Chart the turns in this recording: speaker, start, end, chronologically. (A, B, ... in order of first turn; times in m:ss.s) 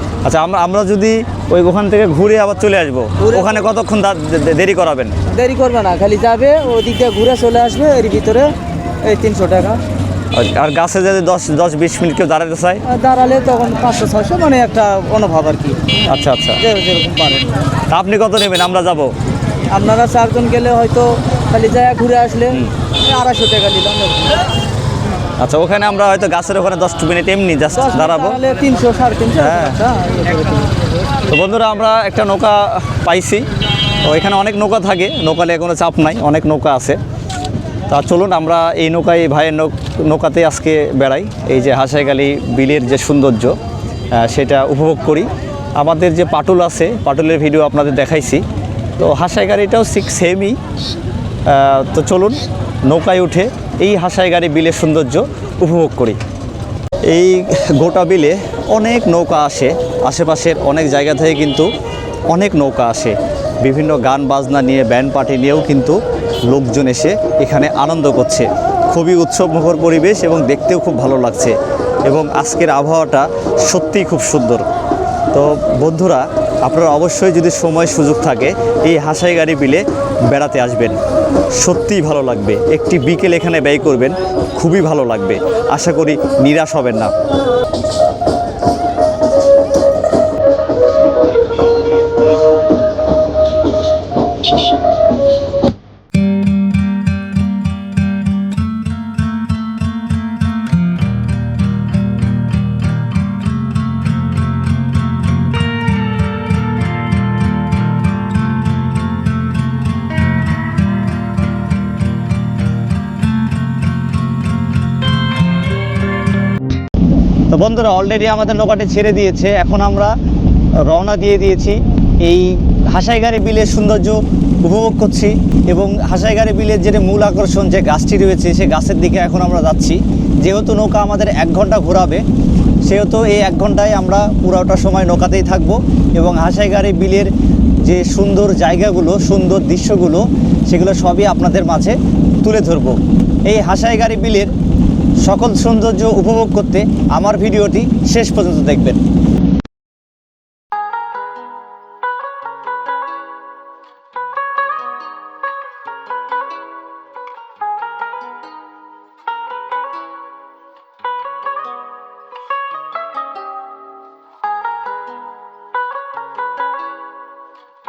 0:00.2-0:05.2 A
0:05.3-0:08.5 B
0:09.0-0:09.8 B
0:10.3-0:12.8 A
0:12.9-0:16.0 B
0:16.0-0:16.7 A
0:16.6-0:17.5 B
0:17.9-0:19.1 A
0:19.7-0:24.4 B
0:25.4-0:28.4 A
0:27.8-0:30.8 B
0:29.3-0:29.8 A
0:31.2-0:33.5 A
0:34.0-0:37.0 A
0:37.9-0:43.5 A
0:44.1-0:48.4 A
0:49.0-0:50.6 A
0:51.5-0:56.2 A
0:57.1-1:01.7 A
1:02.3-1:14.6 A
1:15.3-1:21.0 A
1:21.6-1:27.1 A
1:57.5-2:00.1 A
2:00.8-2:12.2 A
2:12.8-2:17.3 A
2:17.8-2:24.5 A
2:25.2-2:29.0 A